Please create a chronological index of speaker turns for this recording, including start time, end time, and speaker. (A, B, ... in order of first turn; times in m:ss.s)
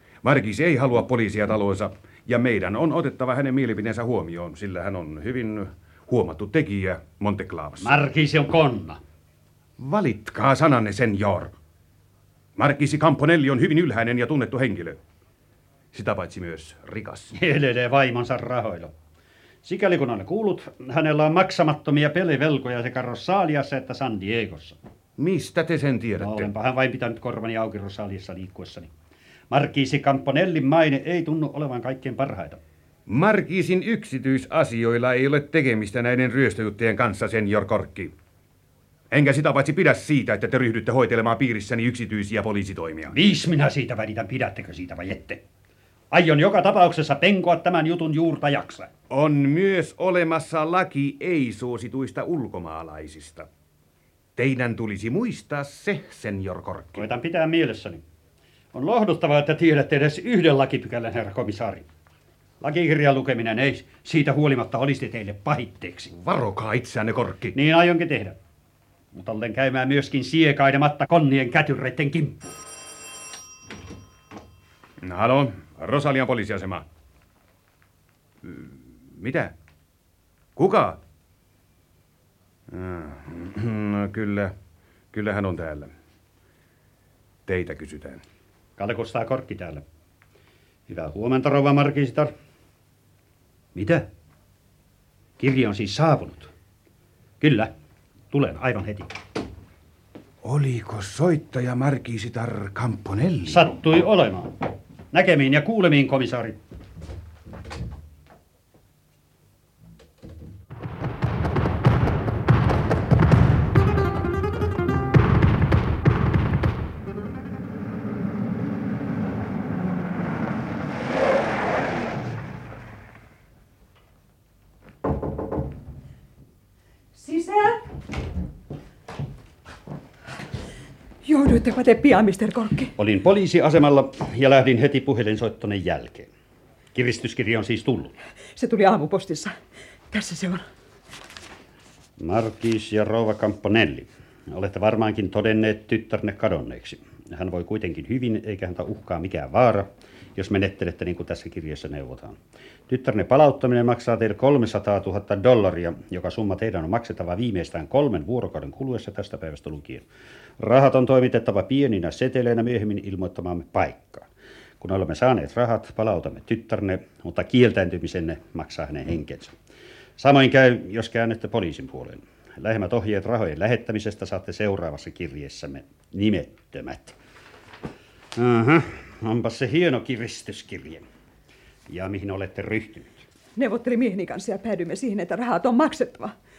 0:00.2-0:08.0 A
0:07.8-0:09.0 B
0:09.8-0:11.5 A
0:12.6-0:15.0 A
0:15.9-0:17.4 A
0:17.3-0:18.9 B
0:19.6-0:24.8 B
0:25.2-0:26.5 A
0:26.2-0:28.9 B
0:29.5-0:32.6 B
0:33.1-0:38.1 A
0:39.1-0:43.2 A
0:43.1-0:45.4 B
0:46.1-0:48.9 B
0:49.1-0:53.5 A
0:54.4-0:57.1 A
0:57.0-0:58.0 B
0:58.7-1:01.9 B
1:02.6-1:06.1 B
1:06.2-1:07.5 A
1:07.5-1:08.4 B
1:09.1-1:12.5 B
1:15.0-1:16.8 A
1:18.4-1:19.5 A
1:20.6-1:21.0 A
1:22.7-1:24.5 A
1:25.1-1:25.9 A
1:27.5-1:28.2 A
1:28.8-1:29.8 B
1:30.9-1:32.3 B
1:33.8-1:34.1 B
1:35.4-1:36.5 B
1:37.4-1:37.7 B
1:38.3-1:39.1 B
1:40.4-1:43.6 A
1:43.5-1:44.5 B
1:45.1-1:46.6 B
2:07.2-2:07.8 C
2:11.2-2:12.9 C
2:13.0-2:16.3 B
2:16.9-2:18.1 B
2:18.6-2:19.6 C
2:20.1-2:20.6 C
2:22.2-2:32.4 B
2:32.9-2:40.1 B
2:40.6-2:44.3 B
2:44.8-2:49.5 B
2:50.2-2:57.2 B
2:58.4-3:01.0 B
3:01.9-3:03.2 B
3:03.6-3:06.4 C